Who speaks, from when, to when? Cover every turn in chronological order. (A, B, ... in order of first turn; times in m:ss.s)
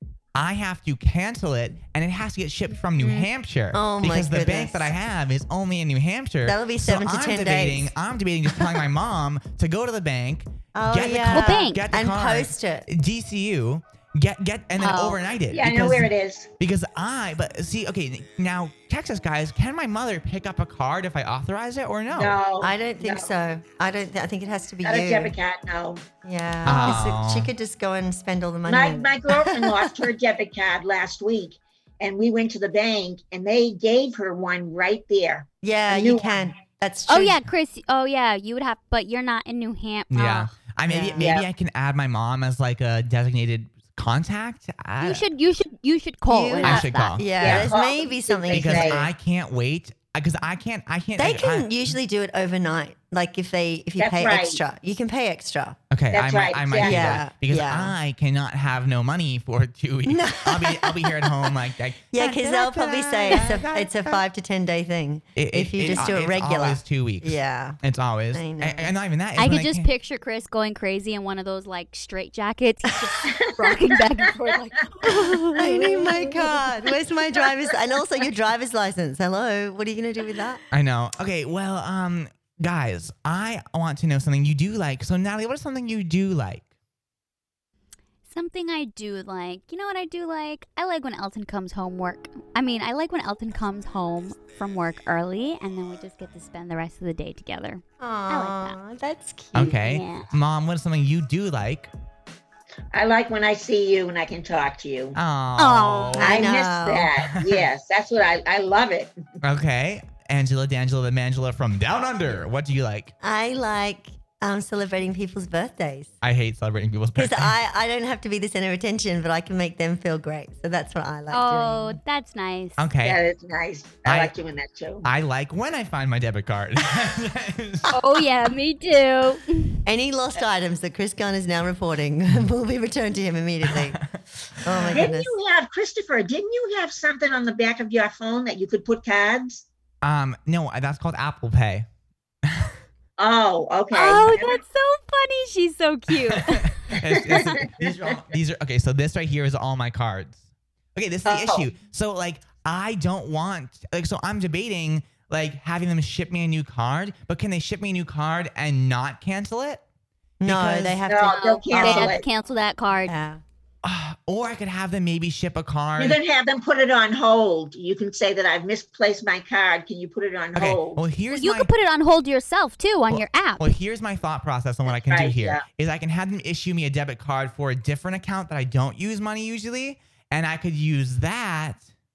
0:00.3-0:22.4 A
0:03.7-0:04.9 B
0:06.4-0:07.9 B
0:10.7-0:12.8 B
0:11.3-0:11.8 C
0:14.8-0:15.2 C
0:15.5-0:16.5 D
0:22.1-0:23.3 D
0:22.6-0:25.3 B
0:24.8-0:26.0 D
0:26.2-0:30.1 B
0:26.6-0:27.5 A
0:28.6-0:36.4 D
0:35.6-0:37.4 B
0:37.1-0:40.5 C
0:40.1-0:45.2 A
0:40.9-0:41.2 B
0:41.2-0:41.5 D
0:45.0-0:47.3 C
0:46.3-0:49.0 B
0:46.6-0:47.7 A
0:47.3-0:49.1 D
0:48.5-0:51.7 A
0:51.2-0:55.8 B
0:54.0-0:54.6 D
0:55.9-1:04.2 A
0:56.1-0:57.2 D
0:56.8-0:57.9 B
1:00.1-1:01.5 B
1:02.1-1:07.8 B
1:05.4-1:09.9 A
1:08.3-1:08.9 B
1:09.4-1:16.5 C
1:13.2-1:15.1 D
1:15.6-1:20.6 B
1:20.7-1:26.6 A
1:28.3-1:38.7 C
1:38.0-1:39.8 B
1:39.5-1:41.9 A
1:39.6-1:40.3 C
1:42.9-1:45.2 D
1:45.2-1:46.5 A
1:45.6-1:46.4 C
1:46.2-1:47.1 B
1:46.2-1:49.1 D
1:47.3-1:47.6 A
1:49.4-1:53.1 A
1:53.2-1:56.1 B
1:56.2-1:57.5 A
1:57.2-2:02.0 B
2:01.3-2:02.8 C
2:02.8-2:03.2 A
2:03.0-2:05.1 D
2:04.0-2:04.3 A
2:05.0-2:08.2 A
2:07.9-2:09.8 C
2:09.8-2:15.3 B
2:14.7-2:15.0 A
2:14.9-2:19.6 D
2:20.0-2:21.8 A
2:22.5-2:22.7 A
2:23.2-2:24.6 D
2:23.9-2:26.8 C
2:26.1-2:30.4 A
2:27.4-2:28.2 D
2:30.9-2:39.8 A
2:31.2-2:31.7 D
2:40.4-2:42.2 B
2:40.4-2:41.0 A
2:41.0-2:42.3 D
2:41.2-2:43.1 C
2:43.0-2:43.4 B
2:43.8-2:46.2 A
2:46.0-2:51.0 D
2:50.5-2:51.7 A
2:51.3-2:53.7 C
2:53.1-3:01.8 A
2:54.9-2:55.6 D